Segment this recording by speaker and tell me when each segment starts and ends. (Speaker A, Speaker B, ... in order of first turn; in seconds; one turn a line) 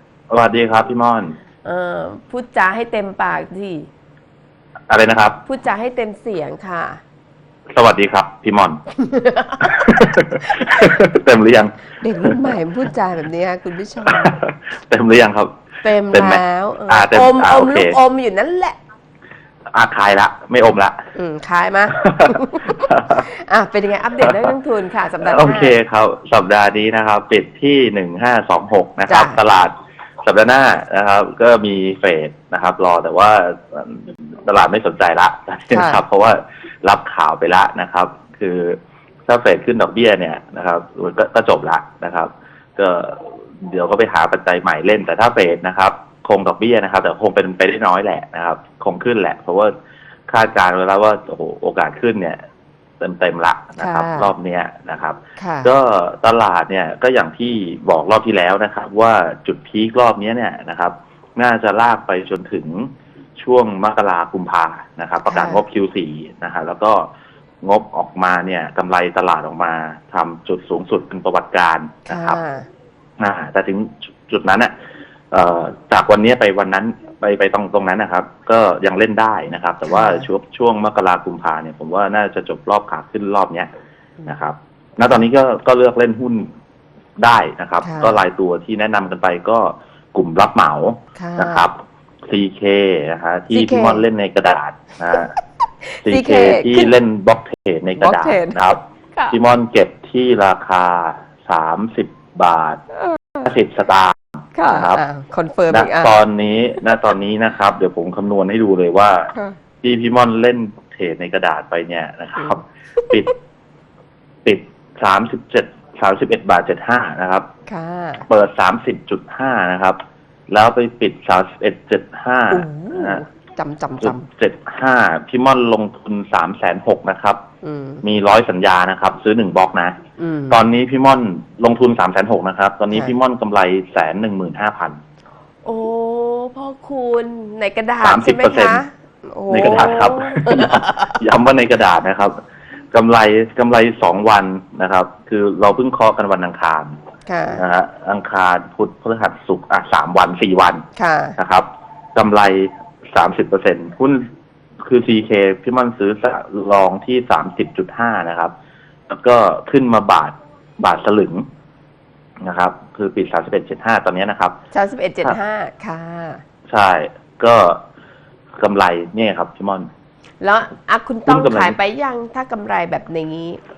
Speaker A: 0.3-1.4
Speaker B: 1.6-3.9
Speaker A: 4.9-5.4
Speaker B: 5.5-7.0
Speaker A: 7.8-8.8
Speaker B: 9.0-9.8
Speaker A: 9.6-12.5
Speaker B: 10.4-11.0
Speaker B: 12.0-14.3
Speaker A: 14.0-15.5
Speaker B: 15.8-18.8
Speaker A: 16.1-18.0
Speaker A: 19.7-21.1
Speaker B: 21.1-25.8
Speaker A: 22.0-22.4
Speaker A: 22.9-23.2
Speaker A: 24.2-24.5
Speaker A: 25.2-49.7
Speaker B: 29.1-29.4
Speaker B: 35.7-36.0
Speaker A: 50.3-52.4
Speaker A: 53.0-67.1
Speaker B: 53.8-54.3
Speaker B: 55.4-55.7
Speaker B: 65.3-65.6
Speaker A: 67.6-72.4
Speaker B: 72.1-72.7
Speaker A: 73.2-74.7
Speaker A: 75.3-83.7
Speaker B: 79.9-80.3
Speaker A: 84.3-86.5
Speaker A: 87.2-91.8
Speaker B: 87.8-88.2
Speaker B: 91.2-91.7
Speaker A: 92.3-95.3
Speaker B: 93.5-94.0
Speaker B: 95.9-96.9
Speaker A: 96.0-102.8
Speaker B: 98.0-98.6
Speaker B: 103.1-103.5
Speaker A: 103.4-105.0
Speaker B: 104.5-106.2
Speaker A: 105.7-113.3
Speaker B: 112.4-113.2
Speaker A: 114.5-117.5
Speaker B: 117.7-118.3
Speaker A: 118.3-120.0
Speaker A: 120.5-123.2
Speaker B: 122.5-124.3
Speaker A: 124.0-127.4
Speaker B: 127.6-128.0
Speaker A: 128.0-129.9
Speaker B: 130.2-130.6
Speaker A: 130.5-135.0
Speaker B: 135.7-141.2
Speaker A: 138.0-138.8
Speaker A: 139.5-142.4
Speaker A: 142.9-146.9
Speaker B: 147.3-147.6
Speaker A: 147.5-150.8
Speaker B: 151.0-151.4
Speaker A: 151.4-154.3
Speaker A: 154.8-158.5
Speaker A: 159.1-161.5
Speaker A: 162.4-164.6
Speaker B: 164.7-166.4
Speaker A: 166.7-167.8
Speaker A: 168.6-169.9
Speaker B: 170.4-173.6
Speaker A: 171.3-171.8